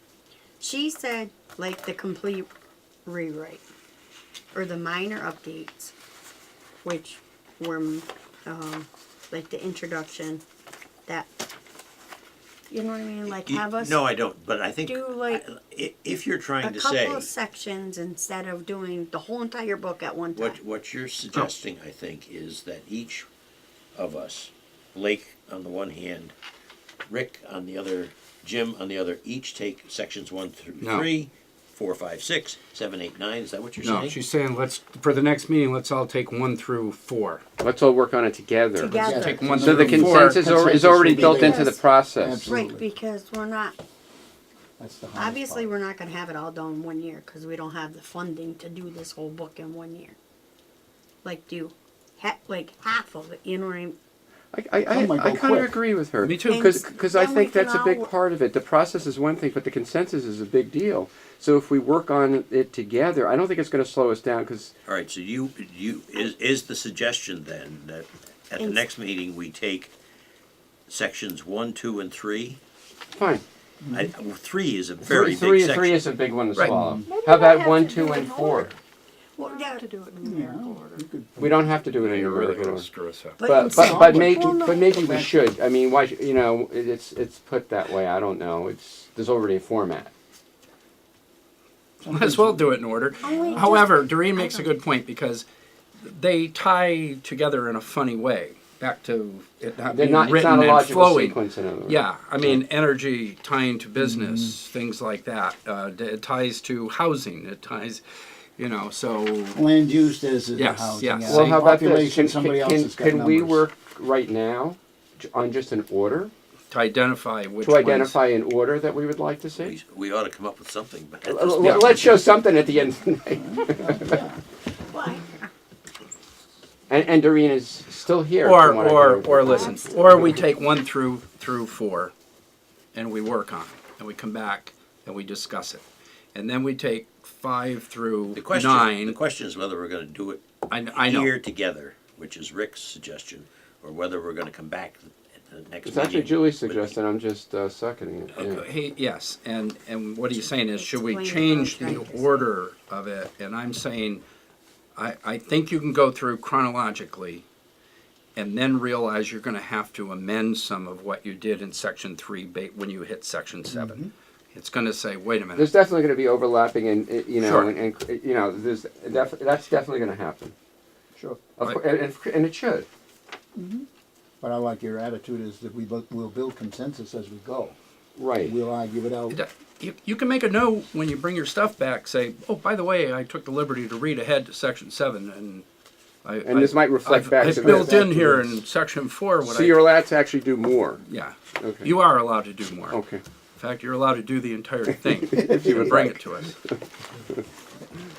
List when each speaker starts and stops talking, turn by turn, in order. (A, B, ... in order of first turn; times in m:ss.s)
0:00.6-0:02.5 A
0:03.0-0:03.6 A
0:04.5-0:05.9 A
0:06.8-0:10.4 A
0:12.7-0:14.0 A
0:13.3-0:17.3 B
0:14.8-0:15.4 A
0:16.6-0:20.6 A
0:20.3-0:23.3 B
0:23.9-0:26.3 B
0:27.1-0:34.2 B
0:30.8-0:31.1 C
0:33.8-0:37.4 C
0:37.6-0:42.5 D
0:38.8-0:39.6 A
0:39.0-0:42.9 E
0:39.2-0:40.5 C
0:41.1-0:41.8 A
0:42.4-0:43.8 A
0:44.8-0:45.7 E
0:45.1-0:50.2 A
0:51.2-0:54.0 A
0:54.5-1:04.7 D
0:54.9-0:55.8 E
0:56.2-0:56.7 C
0:56.5-0:58.1 A
1:04.8-1:09.9 B
1:10.9-1:12.6 B
1:13.1-1:13.4 D
1:13.8-1:14.1 E
1:13.9-1:16.0 B
1:15.0-1:18.7 D
1:16.6-1:17.1 E
1:17.0-1:18.8 F
1:19.4-1:19.8 A
1:19.4-1:21.0 F
1:20.2-1:21.7 E
1:21.4-1:22.9 D
1:22.0-1:23.4 C
1:23.4-1:25.3 A
1:23.4-1:30.1 D
1:23.8-1:24.5 E
1:32.0-1:32.7 E
1:32.0-1:35.4 C
1:33.2-1:34.6 A
1:33.3-1:33.7 F
1:36.0-1:48.0 C
1:39.8-1:42.6 D
1:44.0-1:44.6 E
1:48.6-1:49.6 C
1:49.5-1:53.6 E
1:50.6-1:51.6 C
1:51.2-1:56.3 D
1:56.7-1:58.2 C
1:57.6-1:59.7 D
1:59.6-2:02.0 B
2:01.2-2:04.2 D
2:01.6-2:01.9 C
2:03.4-2:04.4 E
2:04.9-2:05.5 A
2:06.9-2:09.8 D
2:08.4-2:12.1 C
2:09.4-2:10.1 A
2:12.9-2:15.8 C
2:16.3-2:19.2 C
2:18.3-2:27.0 B
2:20.7-2:21.3 C
2:25.8-2:28.6 D
2:28.3-2:28.6 B
2:28.4-2:34.2 C
2:30.4-2:32.5 A
2:35.0-2:37.4 C
2:38.4-2:45.7 C
2:43.7-2:44.1 E
2:45.5-2:50.5 D
2:47.4-2:47.7 C
2:51.6-2:52.9 D
2:53.5-2:53.8 E
2:54.4-2:57.8 E
2:58.2-2:58.5 D
2:58.4-2:59.4 E
2:59.3-3:05.6 C
3:06.2-3:09.8 C
3:06.4-3:08.1 D
3:07.4-3:08.6 E
3:09.4-3:11.0 D
3:11.0-3:13.0 C
3:11.6-3:11.9 D
3:12.9-3:13.2 D
3:13.6-3:16.6 C
3:15.2-3:16.2 D